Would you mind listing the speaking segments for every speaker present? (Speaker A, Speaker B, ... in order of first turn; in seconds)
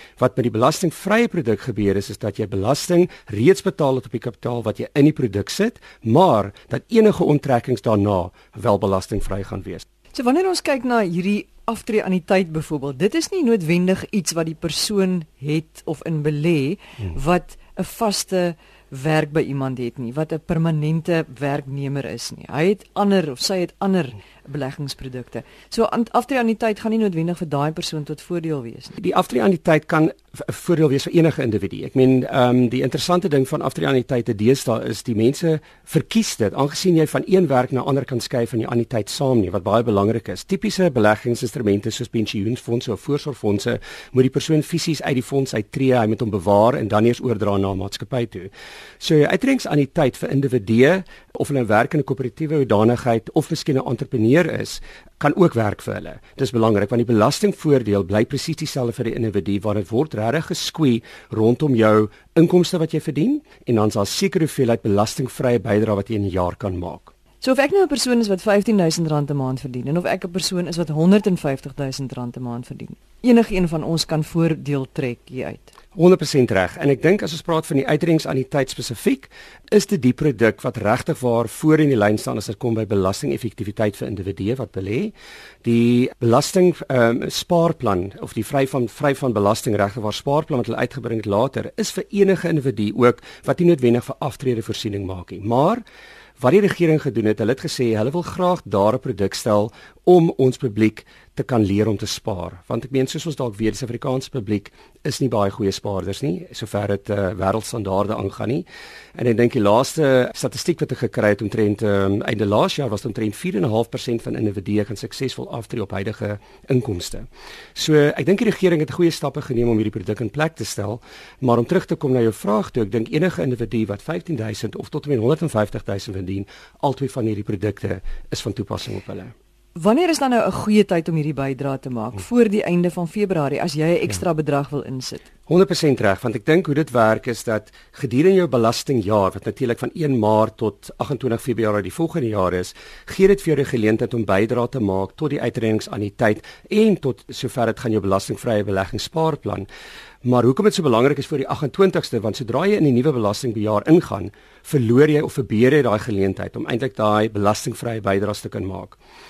Speaker A: 0.2-9.8, 29.0-48.5, 49.0-67.1, 75.9-85.1, 85.6-95.8, 96.4-129.3, 135.5-149.7, 150.2-159.0
Speaker B: 10.1-28.9, 67.4-75.7, 129.8-135.2